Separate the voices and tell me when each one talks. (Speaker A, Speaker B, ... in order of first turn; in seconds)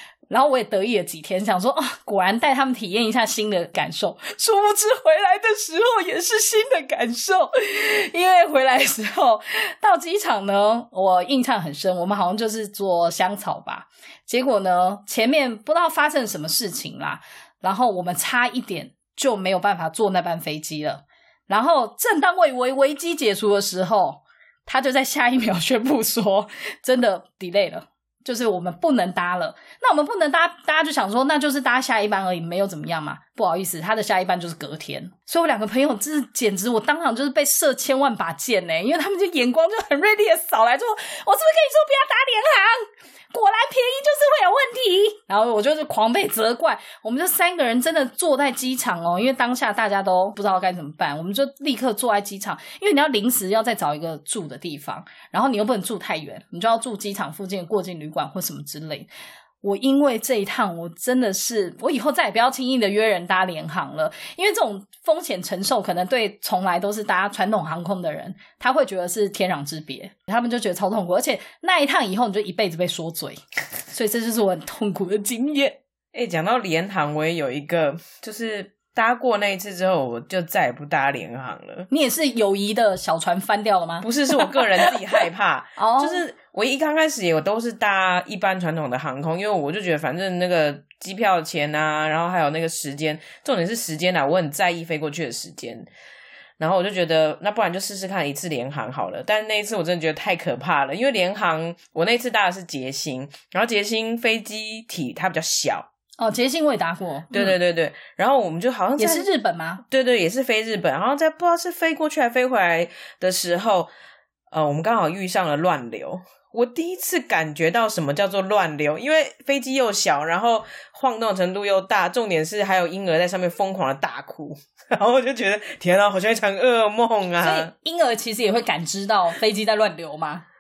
Speaker A: 0.3-59.1, 59.6-75.8, 81.9-84.9, 85.8-86.2, 106.2-107.6, 109.0-109.8, 127.4-130.4
Speaker B: 76.1-81.9, 84.0-95.9, 96.6-105.9, 107.3-109.3, 109.9-113.9, 114.5-127.7